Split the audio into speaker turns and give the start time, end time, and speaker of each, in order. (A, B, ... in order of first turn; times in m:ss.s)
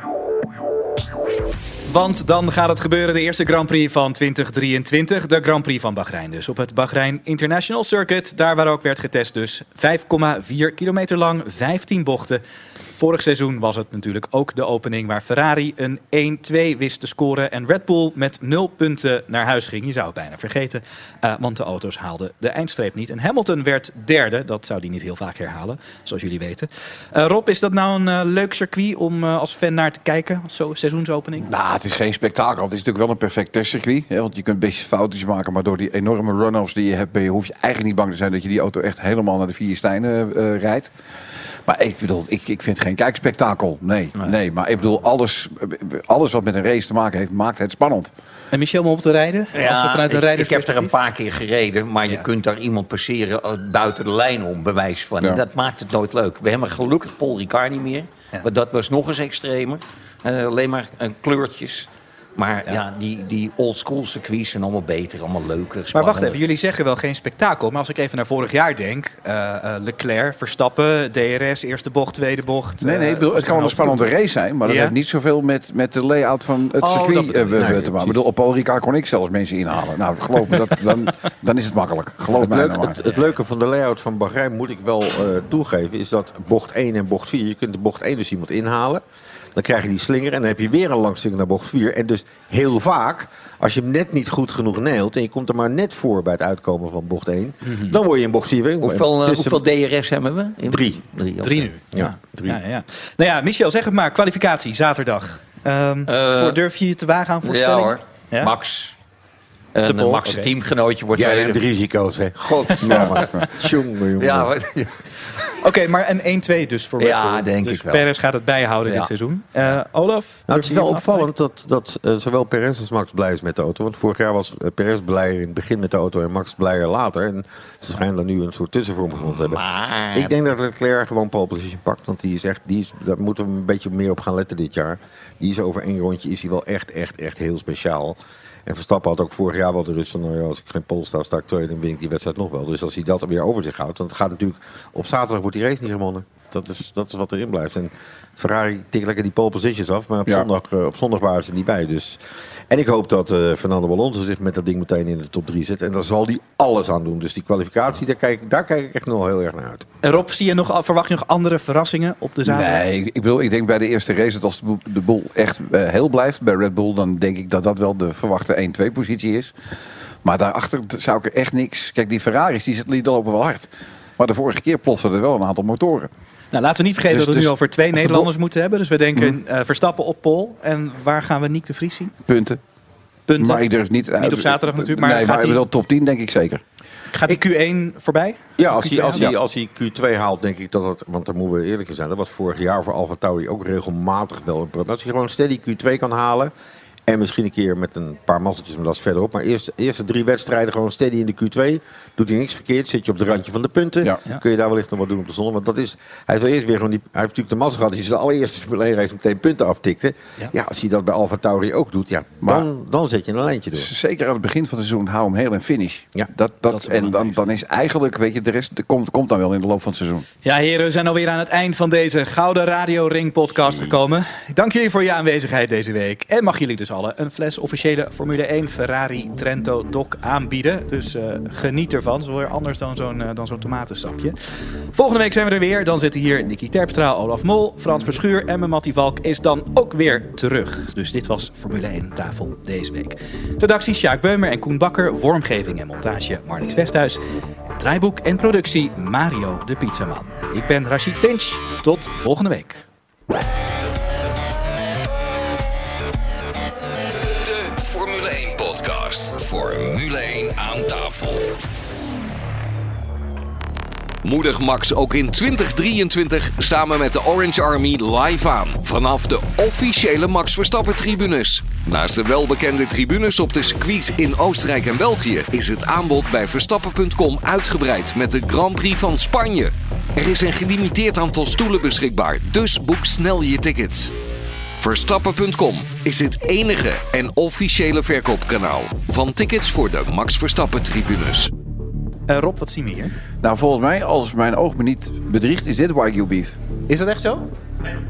0:01.9-0:12.4 A
0:13.0-0:31.5 A
0:31.4-0:40.9 B
0:41.6-0:48.1 B
0:48.5-0:50.9 A
0:49.5-1:06.4 C
1:05.9-1:14.1 A
1:12.8-1:23.0 B
1:14.6-1:14.9 A
1:16.8-1:17.6 A
1:17.6-1:18.2 D
1:22.3-1:29.0 D
1:29.5-1:39.6 D
1:37.6-1:38.0 A
1:38.8-1:41.7 C
1:40.6-1:41.0 D
1:41.4-1:48.5 A
1:41.9-1:42.6 D
1:46.1-1:46.6 C
1:47.4-1:48.9 C
1:49.7-1:51.6 C
1:49.8-1:50.5 A
1:51.1-1:54.5 D
1:52.8-1:53.5 B
1:54.2-1:55.0 C
1:55.6-2:01.3 A
1:57.0-1:58.1 C
2:00.5-2:39.9 D
2:09.2-2:10.3 C
2:40.0-2:42.8 A
2:42.4-2:49.5 B
2:50.2-2:56.1 B
2:56.5-3:02.1 A
2:57.1-2:58.3 B
3:02.3-3:02.6 B
3:03.3-3:03.6 A
3:03.4-3:06.6 B
3:04.2-3:05.6 A
3:07.1-3:09.3 A
3:08.6-3:16.5 D
3:17.1-3:33.9 D
3:33.8-3:40.2 B
3:36.7-3:37.5 A
3:40.4-3:54.3 A
3:54.9-4:12.8 A
4:17.4-4:21.5 E
4:24.2-4:44.1 E
4:44.8-4:51.5 E
4:52.3-4:53.1 A
4:53.4-4:56.6 B
4:56.9-4:57.4 A